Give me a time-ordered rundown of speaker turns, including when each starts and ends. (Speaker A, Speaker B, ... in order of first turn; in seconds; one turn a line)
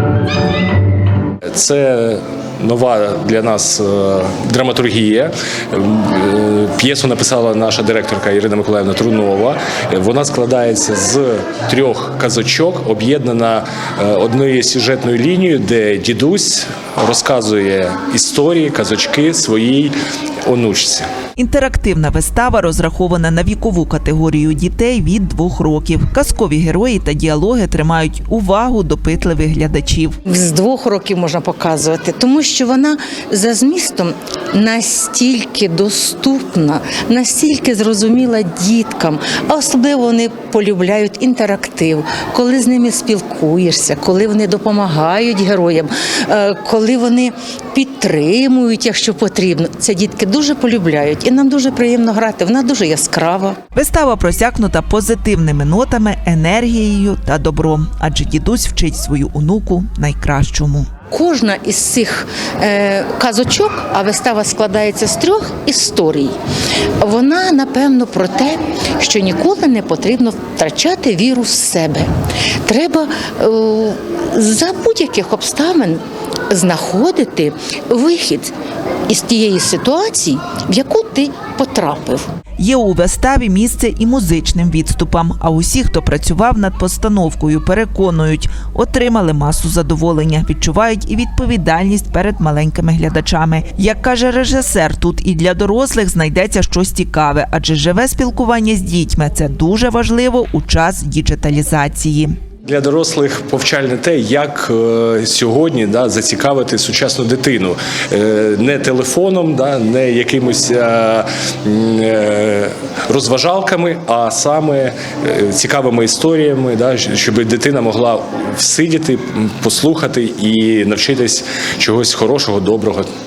Speaker A: 1.5-19.9
Speaker A: 20.4-21.1
Speaker B: 21.4-30.2
Speaker C: 30.2-53.6
Speaker B: 53.7-60.9
Speaker C: 61.1-66.3
Speaker C: 67.0-72.1
Speaker C: 72.6-78.5
Speaker C: 79.1-82.2
Speaker B: 82.6-102.3
Speaker A: 102.6-123.1